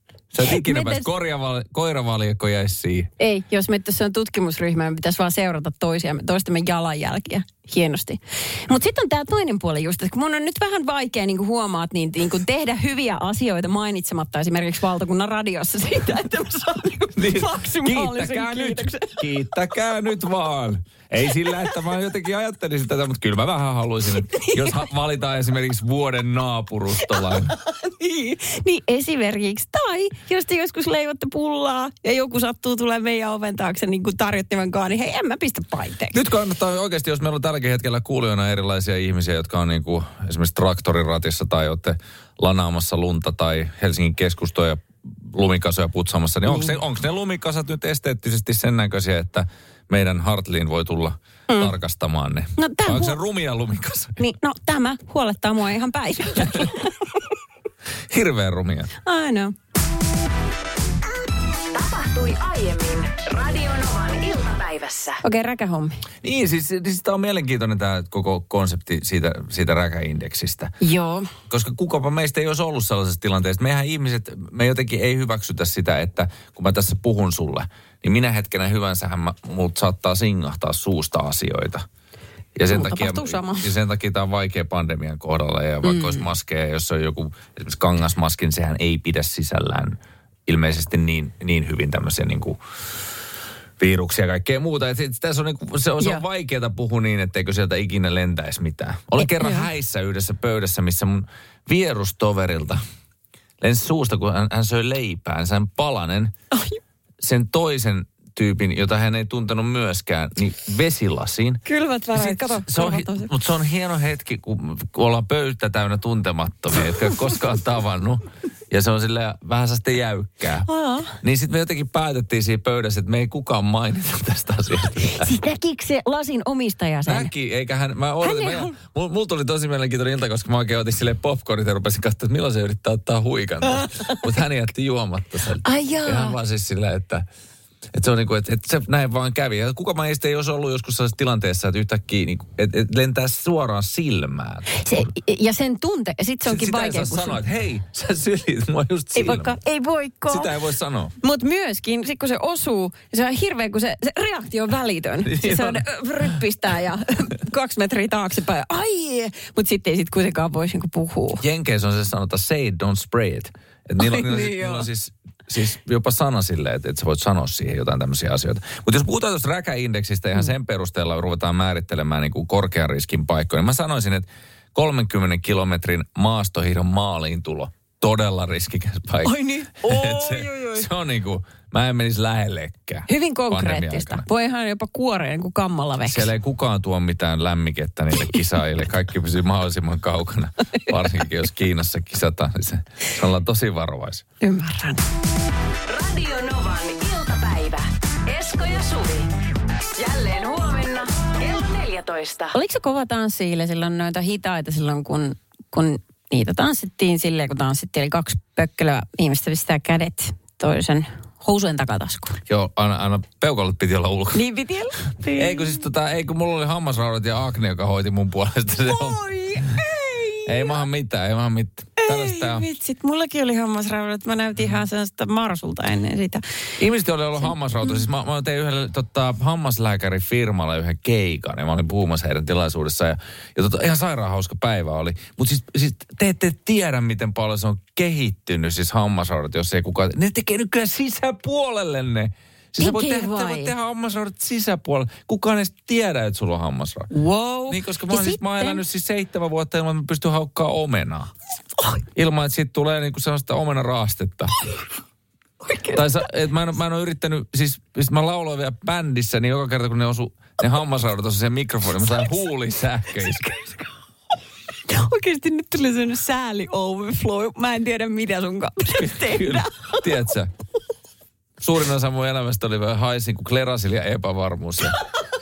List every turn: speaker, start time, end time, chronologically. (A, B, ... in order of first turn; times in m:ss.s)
0:00.3-0:03.1 A
0:00.5-0:01.1 B
0:03.2-0:19.2 B
0:17.2-0:27.5 A
0:24.3-0:24.8 B
0:27.2-0:36.2 B
0:36.1-0:54.2 A
0:52.6-0:53.2 B
0:54.2-0:57.0 B
0:58.1-0:58.9 A
0:59.0-0:59.5 B
1:01.7-1:05.2 C
1:05.2-1:06.0 B
1:06.2-1:10.7 A
1:10.8-1:11.3 B
1:11.5-1:21.8 A
1:22.6-1:32.6 A
1:22.7-1:23.7 B
1:25.8-1:26.3 B
1:33.8-1:42.8 A
1:39.2-1:39.7 B
1:43.6-1:46.3 A
1:47.2-2:00.7 A
1:51.7-1:53.3 B
2:00.7-2:01.2 B
2:01.2-2:05.3 A
2:05.1-2:07.3 B
2:07.0-2:17.3 A
2:08.2-2:08.7 B
2:15.6-2:16.4 B
2:17.9-2:25.1 A
2:24.7-2:27.4 B
2:26.4-2:29.6 A
2:29.2-2:30.5 B
2:30.3-2:31.1 A
2:31.2-2:41.4 B
2:35.2-2:35.8 A
2:41.4-3:04.3 A
2:44.0-2:44.9 B
2:59.2-3:00.9 B
3:03.1-3:06.3 B
3:06.0-3:14.2 A
3:14.4-3:15.1 B
3:15.9-3:19.3 C
3:20.0-3:22.6 C
3:22.5-3:32.4 B
3:32.5-3:34.4 A
3:34.3-3:35.8 B
3:35.3-3:39.2 A
3:38.9-3:40.8 B
3:40.4-3:42.6 A
3:42.0-3:46.4 B
3:46.8-4:07.1 A
4:02.8-4:03.7 B
4:07.1-4:08.8 B
4:07.7-4:11.3 A
4:12.2-4:14.5 A
4:15.6-4:16.0 B
4:15.9-4:23.5 A
4:23.4-4:23.8 B
4:24.9-4:30.0 B
4:29.0-4:30.5 A
4:31.6-4:35.0 A